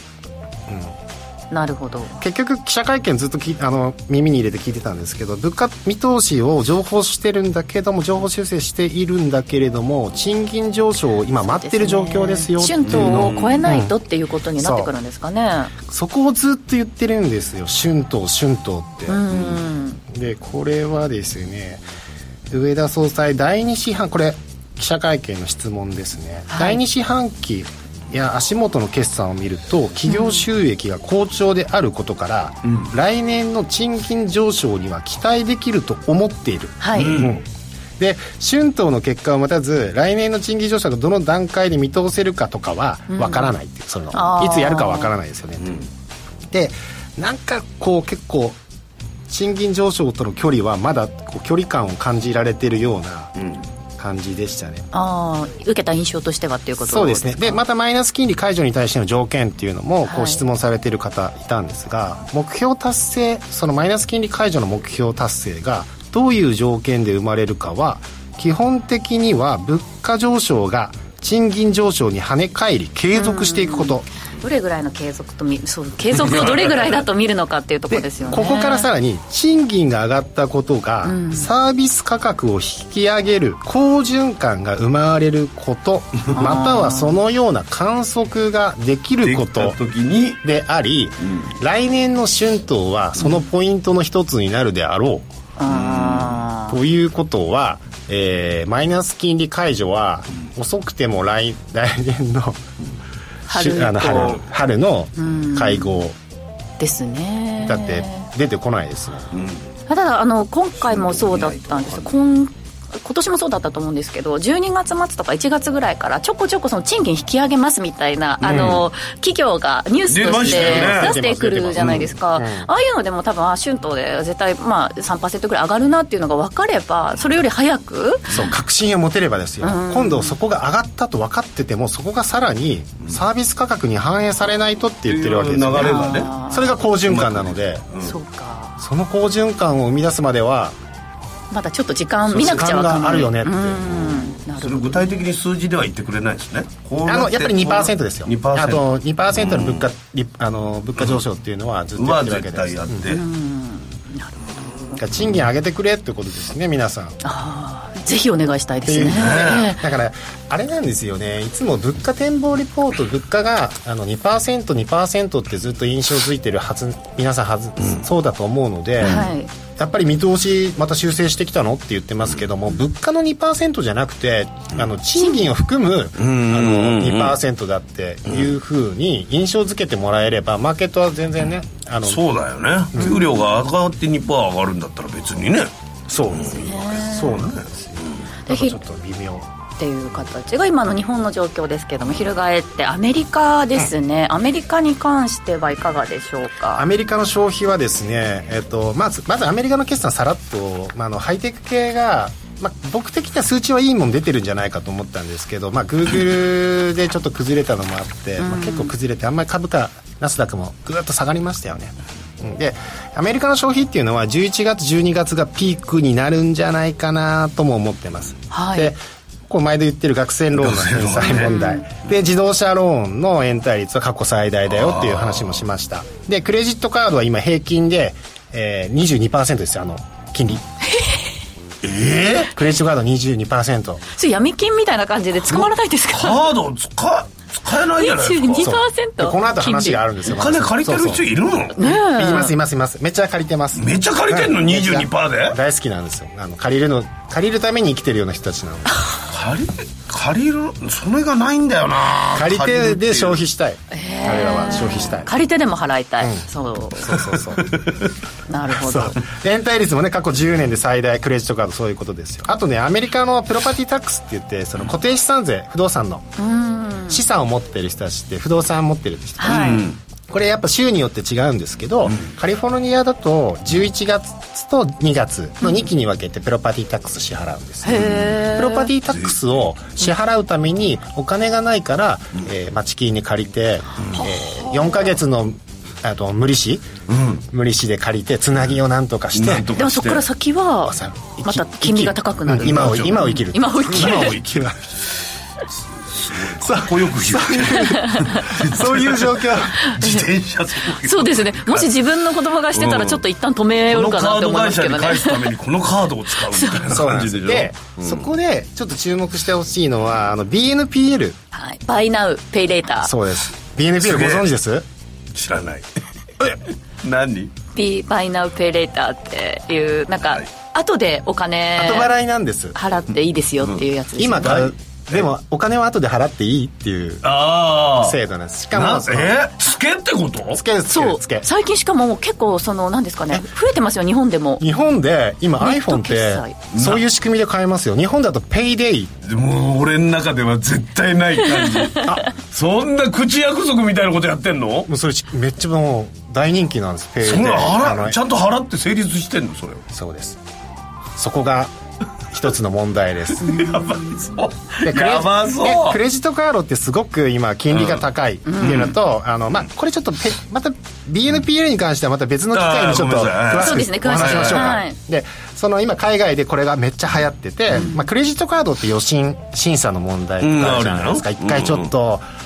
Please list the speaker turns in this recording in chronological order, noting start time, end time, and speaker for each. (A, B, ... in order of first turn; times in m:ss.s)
0:00.7-0:00.9 A
0:01.5-0:02.2 B
0:02.2-0:13.9 A
0:11.4-0:15.7 B
0:12.8-0:13.6 C
0:14.6-0:14.9 A
0:15.9-0:19.5 A
0:19.1-0:20.0 B
0:20.1-0:21.8 A
0:22.5-0:37.4 A
0:26.5-0:26.8 B
0:30.1-0:30.4 B
0:36.8-0:37.2 B
0:36.9-0:37.3 C
0:38.0-0:45.8 A
0:43.1-0:43.5 B
0:44.1-0:45.1 B
0:46.5-0:48.6 A
0:49.3-0:53.3 A
0:54.0-0:54.9 A
0:54.9-0:57.6 B
0:56.8-1:14.1 A
1:00.0-1:00.4 B
1:13.1-1:18.9 B
1:16.5-1:16.9 C
1:17.9-1:29.8 A
1:21.0-1:21.5 B
1:26.3-1:27.2 B
1:29.2-1:30.4 C
1:30.4-1:35.3 A
1:33.2-1:33.4 B
1:35.6-1:36.8 B
1:35.7-1:36.4 C
1:36.7-1:42.6 A
1:43.5-1:44.4 B
1:43.5-1:46.2 A
1:45.2-1:46.0 B
1:46.8-1:48.3 B
1:47.6-1:49.4 A
1:49.3-1:49.6 C
1:49.9-2:08.3 B
1:50.8-1:52.1 C
1:58.4-1:58.8 A
1:58.4-1:58.8 C
2:00.1-2:02.1 C
2:00.4-2:02.7 A
2:08.3-2:17.8 A
2:09.6-2:10.4 B
2:15.1-2:16.3 C
2:15.8-2:16.8 B
2:17.1-2:18.1 C
2:18.0-2:18.7 B
2:18.8-2:20.8 A
2:21.5-2:25.2 B
2:22.3-2:24.1 A
2:24.5-2:28.8 C
2:27.0-2:33.1 A
2:29.4-2:29.9 C
2:32.0-2:33.2 C
2:33.1-2:35.0 B
2:35.0-2:37.2 A
2:37.2-2:39.8 B
2:38.8-3:02.2 A
2:39.0-2:39.7 C
2:49.0-2:49.5 B
2:55.2-2:55.5 B
2:56.2-2:57.4 C
3:02.0-3:05.7 C
3:02.9-3:03.2 A
3:03.0-3:03.4 B
3:06.1-3:09.5 A
3:06.3-3:08.2 C
3:06.4-3:07.4 B
3:08.5-3:08.8 B
3:09.8-3:16.8 B
3:16.7-3:50.6 A
3:28.4-3:28.9 B
3:38.5-3:38.9 B
3:40.6-3:41.5 C
3:41.2-3:41.8 B
3:44.7-3:45.6 C
3:51.8-3:52.5 C
3:52.5-3:54.0 A
3:54.1-3:56.4 B
3:55.4-3:58.7 C
3:58.0-4:00.0 B
3:58.6-4:01.2 A
4:00.3-4:01.8 C
4:01.8-4:02.5 B
4:01.8-4:09.2 A
4:03.8-4:05.6 C
4:09.3-4:13.4 C
4:12.3-4:15.3 A
4:13.9-4:17.2 B
4:17.0-4:17.7 A
4:17.3-4:18.1 C
4:18.5-4:19.2 B
4:18.7-4:26.3 A
4:26.4-4:27.2 B
4:27.1-4:47.0 A
4:29.4-4:29.8 B
4:29.5-4:30.0 C
4:37.8-4:38.9 B
4:37.9-4:38.4 C
4:44.2-4:45.1 B
4:47.1-4:47.4 C
4:47.5-4:49.7 A
4:49.3-4:50.2 C
4:49.8-4:54.4 B
4:50.8-4:54.9 A
4:52.6-4:53.4 C
4:53.9-4:54.6 C
4:56.1-5:01.9 C
4:56.6-4:59.8 A
4:57.9-4:58.5 B
4:59.8-5:00.2 B
5:00.9-5:05.5 B
5:02.7-5:03.2 C
5:03.9-5:08.2 C
5:06.5-5:06.8 B
5:06.9-5:11.4 A
5:11.5-5:13.1 B
5:13.0-5:14.8 A
5:14.0-5:14.5 C
5:15.3-5:15.9 C
5:17.0-5:17.5 C
5:17.7-5:22.1 B
5:21.7-5:22.8 A
5:22.7-5:24.6 B
5:24.2-5:27.3 A
5:24.4-5:25.3 C
5:27.2-5:28.2 C
5:28.0-5:29.4 A
5:28.7-5:30.6 C
5:30.5-5:31.5 A
5:30.9-5:34.6 B
5:34.6-5:39.1 A
5:35.6-5:36.6 B
5:36.7-5:37.0 C
5:39.2-5:44.9 C
5:44.9-5:48.2 A
5:47.2-5:49.8 C
5:49.9-5:50.4 A
5:51.2-5:51.7 A
5:52.3-5:53.6 A
5:53.4-5:54.3 B
5:53.4-5:56.0 C
5:54.8-6:12.2 A
5:57.7-5:58.0 C
5:58.4-5:58.8 B
5:58.6-5:58.9 C
6:02.5-6:04.8 C
6:03.6-6:05.0 B
6:07.8-6:08.0 B
6:10.4-6:11.9 C